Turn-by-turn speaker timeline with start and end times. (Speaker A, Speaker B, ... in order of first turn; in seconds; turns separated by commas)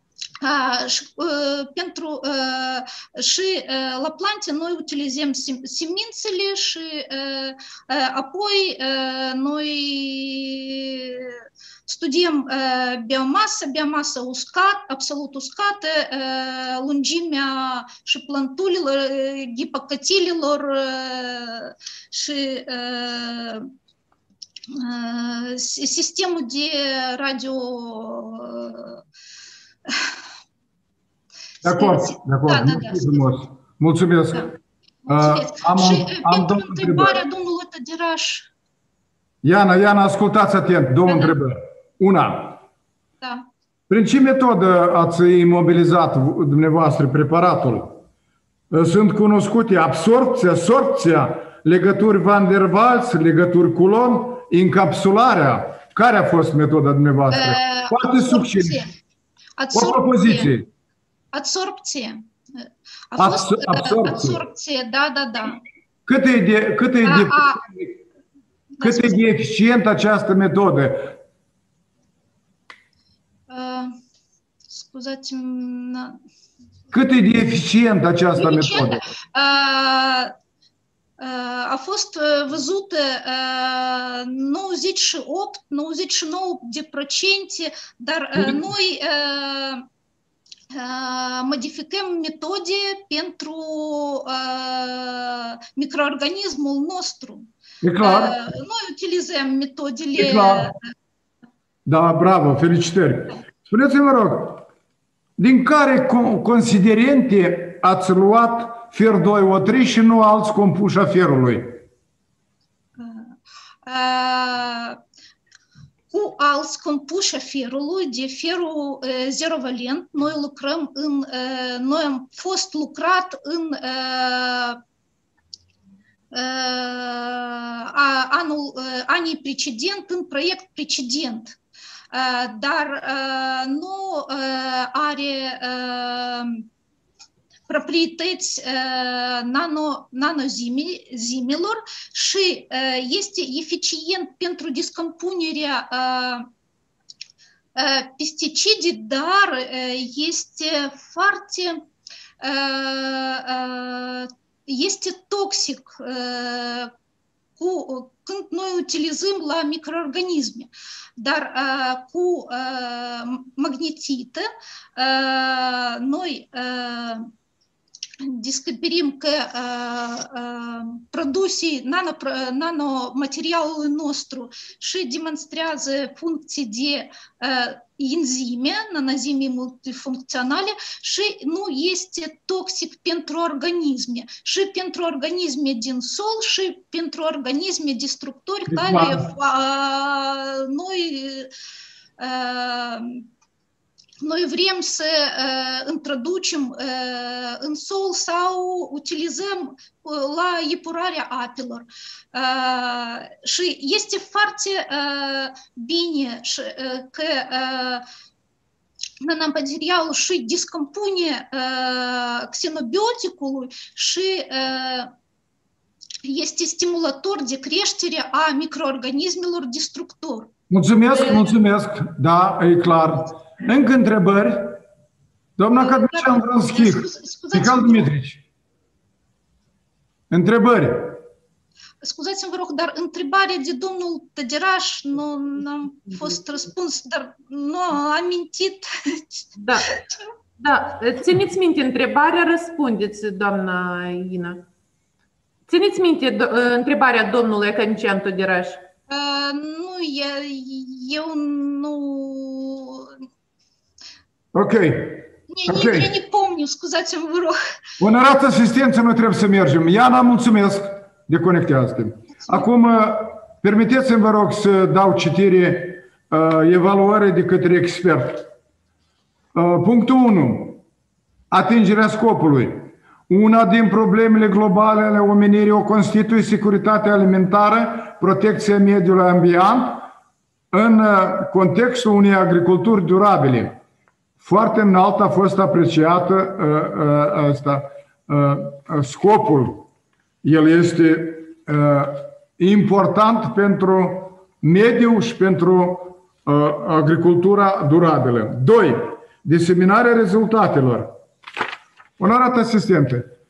Speaker A: 0.4-23.7, Speaker A: 24.7-29.0, Speaker A: 29.9-30.1, Speaker B: 31.6-34.5, Speaker A: 31.6-33.2, Speaker A: 35.1-38.5, Speaker B: 35.1-37.2, Speaker B: 39.4-42.6, Speaker A: 41.0-41.4, Speaker A: 43.2-43.5, Speaker B: 43.9-48.0, Speaker B: 48.7-58.8, Speaker A: 57.3-58.9, Speaker A: 59.6-60.5, Speaker B: 59.7-60.7, Speaker A: 61.3-65.6, Speaker B: 63.2-64.4, Speaker B: 66.1-67.9, Speaker A: 67.0-67.6, Speaker A: 68.8-69.3, Speaker B: 68.8-71.2, Speaker A: 73.5-73.9, Speaker A: 74.7-76.2, Speaker B: 76.9-79.0, Speaker A: 78.4-80.3, Speaker A: 81.2-89.8, Speaker B: 88.3-88.6, Speaker A: 90.7-97.5, Speaker B: 97.8-98.4, Speaker A: 98.0-100.7, Speaker B: 100.2-100.7, Speaker B: 101.9-104.7, Speaker B: 105.4-111.8, Speaker A: 113.0-113.2, Speaker A: 113.8-115.0, Speaker A: 116.1-124.8, Speaker A: 126.3-131.6, Speaker A: 132.1-136.7, Speaker A: 137.7-146.5, Speaker A: 147.8-151.8, Speaker A: 152.4-156.9, Speaker A: 157.6-164.4, Speaker A: 165.0-167.3, Speaker A: 168.2-191.5, Speaker B: 188.7-189.3, Speaker A: 192.2-193.2, Speaker A: 194.2-208.0, Speaker A: 209.2-215.1, Speaker A: 216.2-220.5, Speaker B: 220.7-224.8, Speaker A: 221.1-221.5, Speaker B: 225.6-228.4, Speaker A: 225.7-228.1, Speaker B: 230.3-231.2, Speaker A: 232.0-239.4, Speaker C: 239.6-240.0, Speaker A: 240.0-240.2, Speaker C: 240.6-244.6, Speaker C: 245.7-248.8, Speaker A: 249.1-253.1, Speaker B: 254.5-256.1, Speaker A: 255.5-257.6, Speaker B: 258.0-268.5, Speaker B: 269.5-270.8, Speaker B: 271.5-280.1, Speaker B: 280.7-283.8, Speaker B: 284.4-289.9, Speaker B: 290.4-301.1, Speaker B: 302.2-303.3